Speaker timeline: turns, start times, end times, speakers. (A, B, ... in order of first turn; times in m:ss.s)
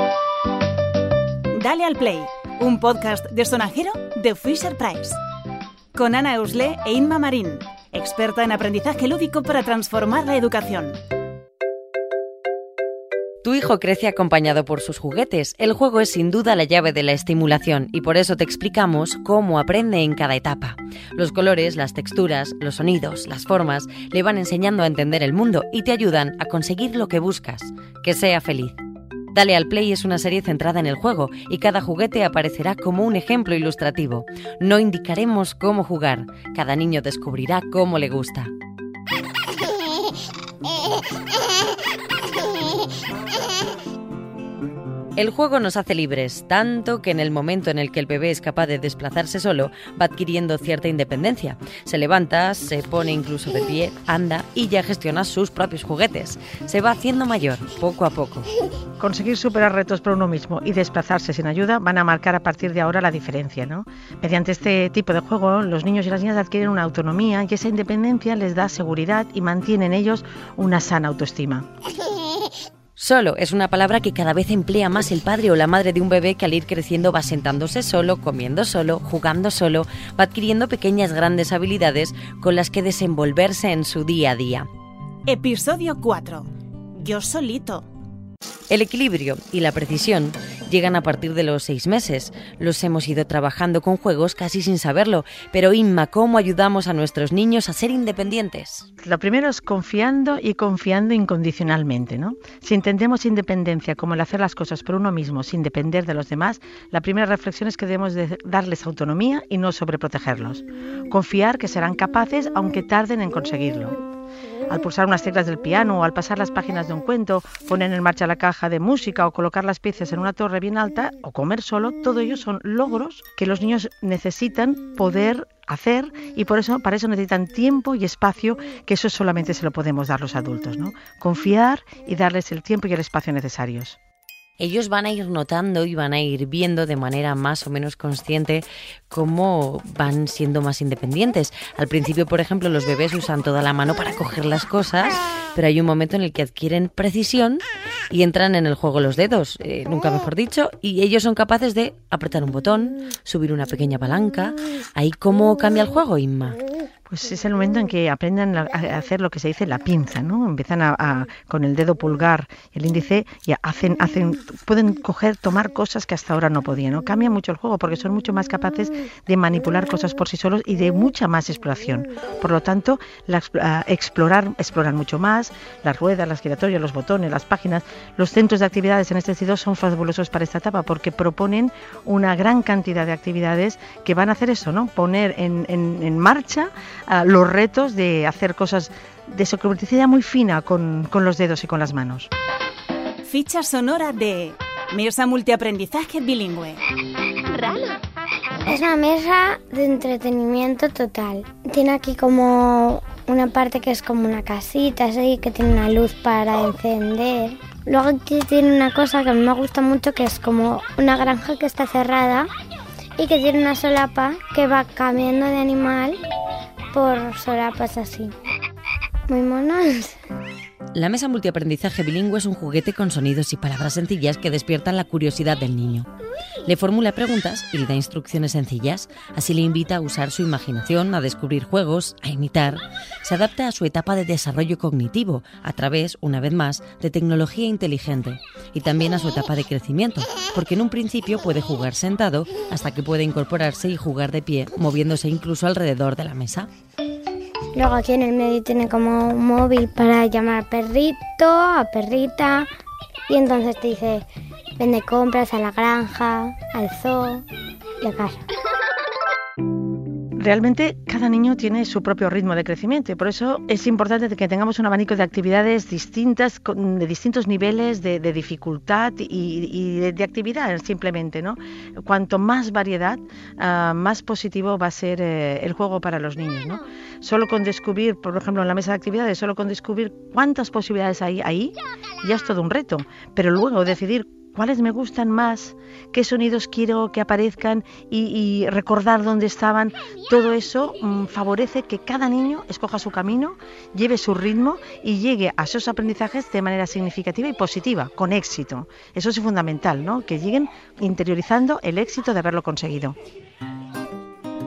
0:01.5-0:05.2 A
0:05.9-0:11.0 A
0:13.4-0:28.8 B
0:29.3-0:38.5 B
0:45.2-0:58.5 B
0:59.0-1:11.6 C
1:13.0-1:24.7 B
1:25.2-1:27.9 A
1:28.7-1:38.9 B
1:39.0-1:54.0 C
1:54.7-2:14.0 C
2:14.6-2:36.6 B
2:37.1-3:12.3 C
3:13.2-3:16.8 A
3:18.6-3:32.5 D
3:33.2-3:36.2 D
3:36.9-3:38.3 D
3:39.3-3:40.2 D
3:40.9-3:46.1 B
3:46.6-4:06.7 B
4:07.7-4:12.7 D
4:13.3-4:14.2 D
4:14.8-4:17.4 D
4:18.0-4:18.4 D
4:20.4-5:03.2 C